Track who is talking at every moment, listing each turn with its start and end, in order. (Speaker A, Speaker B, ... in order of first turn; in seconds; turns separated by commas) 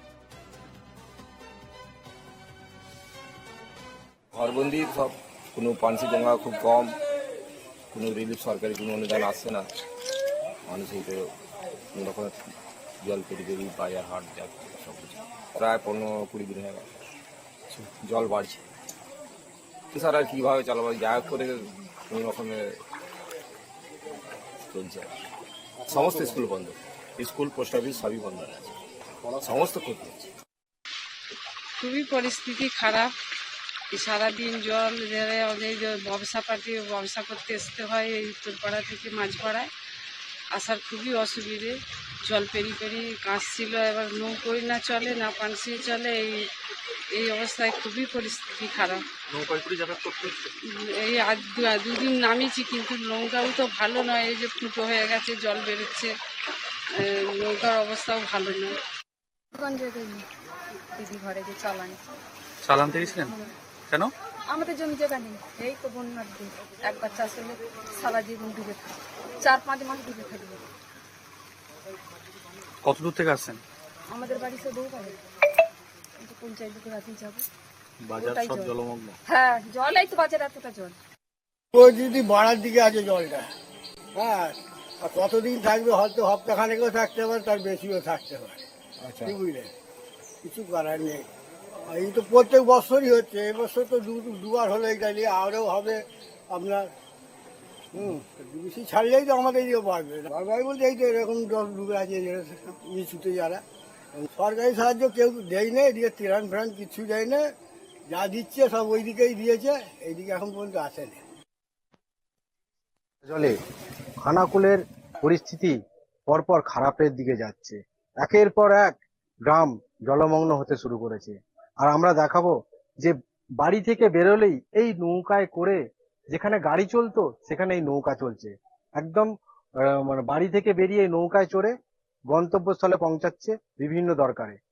Speaker A: 4.3-7.0, Speaker A: 7.9-9.7, Speaker A: 10.7-11.3, Speaker A: 11.9-12.3, Speaker A: 13.0-16.9, Speaker A: 17.7-18.6, Speaker A: 19.9-22.7, Speaker A: 24.7-25.1, Speaker A: 25.9-30.3, Speaker B: 31.8-33.1, Speaker B: 33.9-39.7, Speaker B: 40.5-46.5, Speaker B: 47.1-49.0, Speaker C: 49.3-50.5, Speaker B: 50.6-56.1, Speaker B: 57.0-58.8, Speaker D: 59.5-60.3, Speaker D: 60.9-62.0, Speaker C: 62.6-63.3, Speaker D: 62.8-63.5, Speaker D: 64.5-68.9, Speaker D: 69.4-70.6, Speaker C: 72.8-73.6, Speaker D: 74.1-75.2, Speaker D: 76.2-77.5, Speaker C: 78.0-79.2, Speaker D: 78.2-81.0, Speaker E: 81.8-83.5, Speaker E: 84.2-88.6, Speaker E: 89.2-89.7, Speaker E: 90.4-91.3, Speaker E: 91.9-96.9, Speaker E: 97.9-103.6, Speaker E: 104.1-107.5, Speaker E: 108.1-111.2, Speaker F: 113.3-113.5, Speaker F: 114.2-115.8, Speaker F: 116.3-118.9, Speaker F: 119.5-125.8, Speaker F: 126.3-129.3, Speaker F: 129.8-131.7, Speaker F: 132.3-134.6